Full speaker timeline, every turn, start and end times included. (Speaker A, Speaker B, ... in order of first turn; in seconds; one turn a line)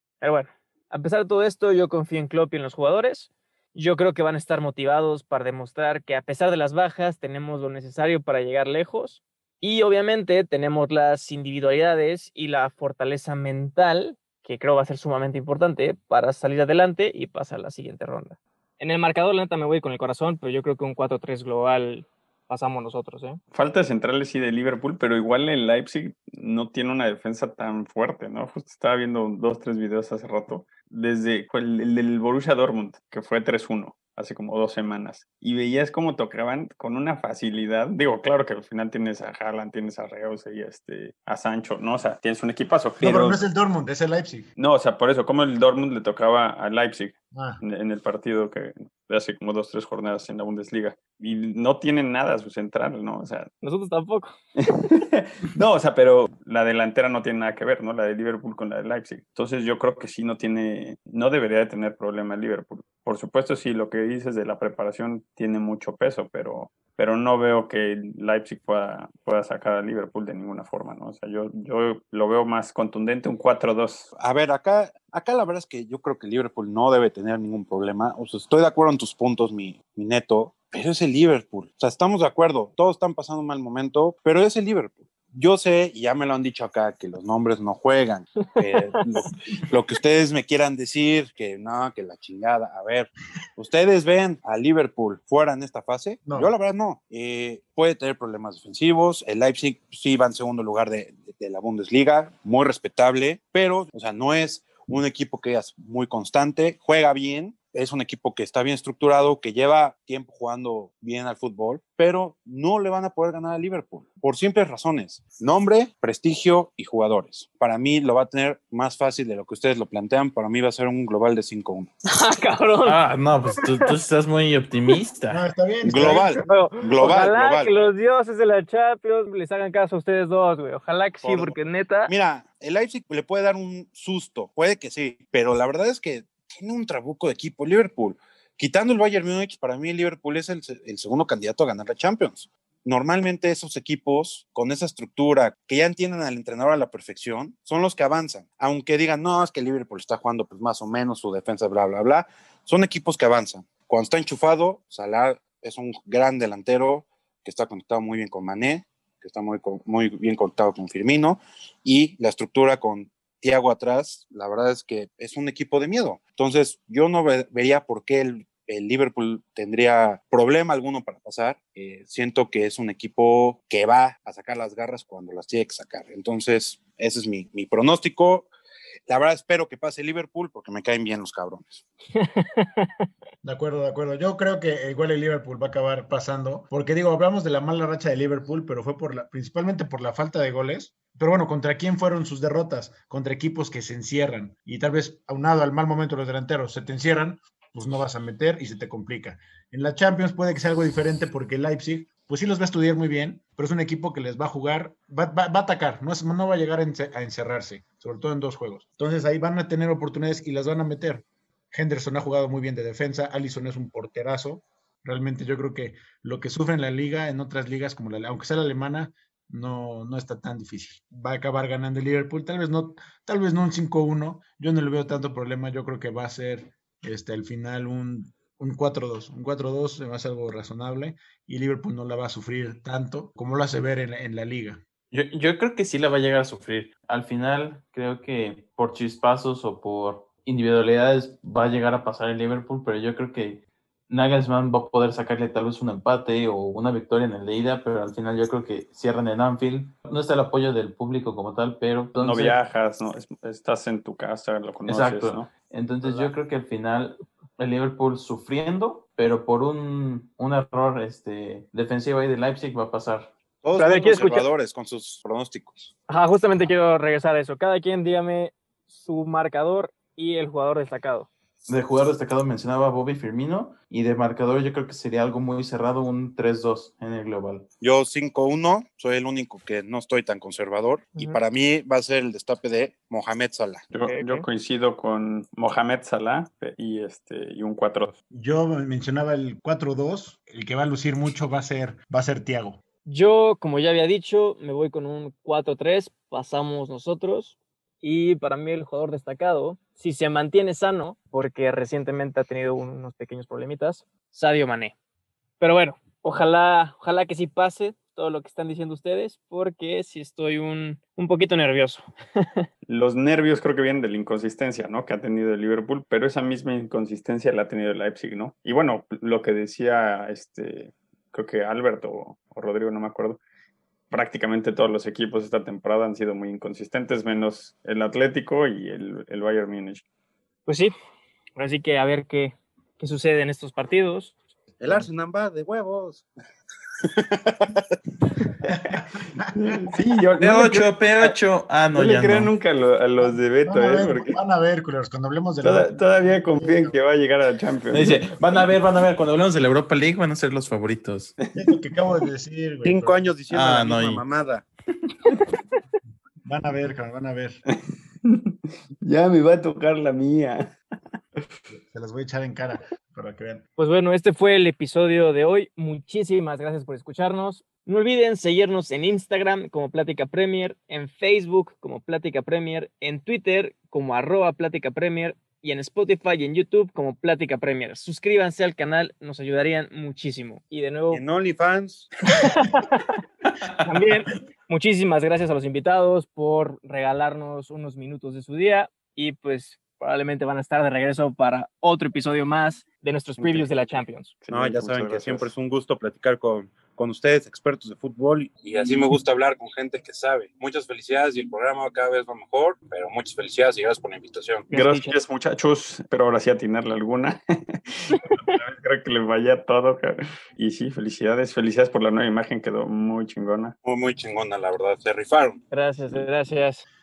Speaker A: 0.2-23.4
Speaker B: 23.5-43.4
Speaker C: 43.0-44.5
Speaker B: 44.6-53.5
Speaker C: 47.3-47.6
Speaker A: 53.6-54.3
Speaker B: 54.7-74.1
Speaker D: 74.2-121.9
Speaker C: 96.2-96.5
Speaker A: 122.1-123.0
Speaker E: 122.8-125.4
Speaker C: 125.3-126.3
Speaker D: 125.8-127.8
Speaker A: 126.0-132.1
Speaker D: 131.2-178.5
Speaker D: 179.1-181.8
Speaker A: 182.1-183.1
Speaker C: 183.4-234.8
Speaker E: 235.1-252.6
Speaker B: 252.2-255.5
Speaker E: 254.9-263.3
Speaker A: 256.0-256.3
Speaker D: 263.6-265.9
Speaker A: 263.8-264.5
Speaker A: 266.1-271.3
Speaker E: 271.7-277.7
Speaker D: 277.8-283.9
Speaker B: 283.9-288.2
Speaker A: 284.0-284.4
Speaker C: 288.3-292.8
Speaker A: 293.1-304.9
Speaker A: 305.6-312.6
Speaker B: 312.9-323.4
Speaker B: 324.1-330.0
Speaker A: 330.7-330.9
Speaker A: 331.6-334.4
Speaker D: 334.8-336.3
Speaker D: 337.2-337.9
Speaker C: 338.7-339.2
Speaker B: 339.5-341.3
Speaker E: 340.4-342.5
Speaker B: 341.9-344.4
Speaker C: 343.2-346.9
Speaker B: 345.6-348.7
Speaker E: 347.9-351.4
Speaker C: 351.5-353.4
Speaker D: 352.8-354.6
Speaker E: 353.5-354.2
Speaker C: 356.4-357.6
Speaker B: 358.2-360.8
Speaker C: 361.9-363.6
Speaker A: 363.8-381.2
Speaker D: 381.1-382.1
Speaker A: 382.4-383.1
Speaker A: 383.8-394.3
Speaker B: 393.4-393.7
Speaker B: 394.4-395.5
Speaker D: 394.5-404.7
Speaker A: 404.7-405.1
Speaker B: 404.7-413.8
Speaker A: 408.1-408.6
Speaker D: 413.9-415.6
Speaker A: 415.7-416.8